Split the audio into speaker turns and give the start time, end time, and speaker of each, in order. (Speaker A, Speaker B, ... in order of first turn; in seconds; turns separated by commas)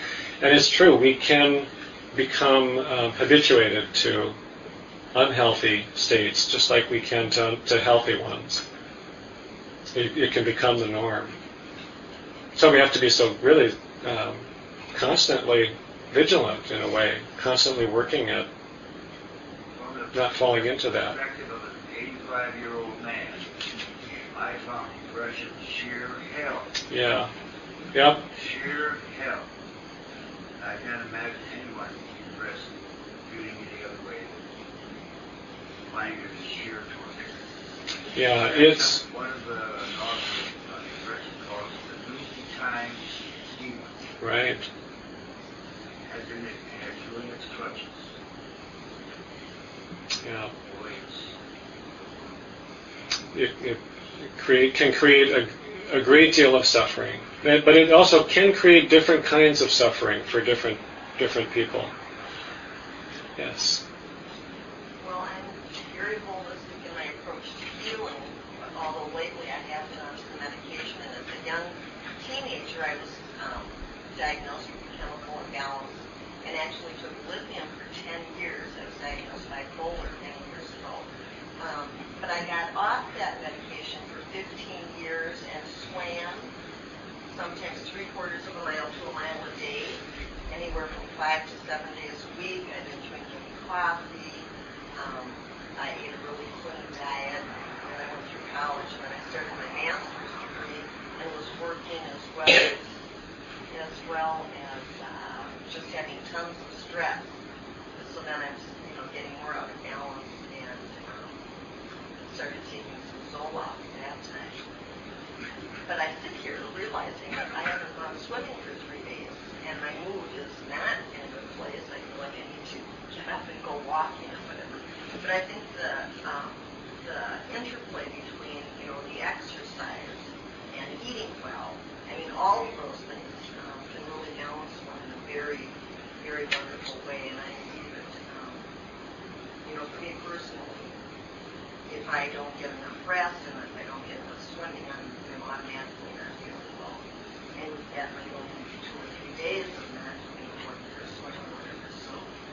Speaker A: 0.4-4.3, Speaker A: 5.1-8.6, Speaker A: 9.9-11.3, Speaker A: 12.6-18.5, Speaker B: 19.7-23.5, Speaker A: 20.1-21.2, Speaker B: 24.3-26.7, Speaker A: 26.9-27.3, Speaker A: 27.9-28.2, Speaker B: 28.3-29.5, Speaker B: 30.6-34.4, Speaker B: 35.9-37.3, Speaker A: 38.1-39.0, Speaker B: 38.2-44.0, Speaker A: 44.2-44.7, Speaker B: 46.0-48.1, Speaker A: 50.2-50.5, Speaker B: 50.6-51.3, Speaker A: 53.3-61.9, Speaker A: 63.4-63.8, Speaker C: 65.0-86.5, Speaker C: 87.3-102.9, Speaker C: 103.7-107.3, Speaker C: 107.9-111.4, Speaker C: 112.3-114.6, Speaker C: 115.9-138.6, Speaker C: 139.6-141.0, Speaker C: 141.8-147.0, Speaker C: 147.5-152.3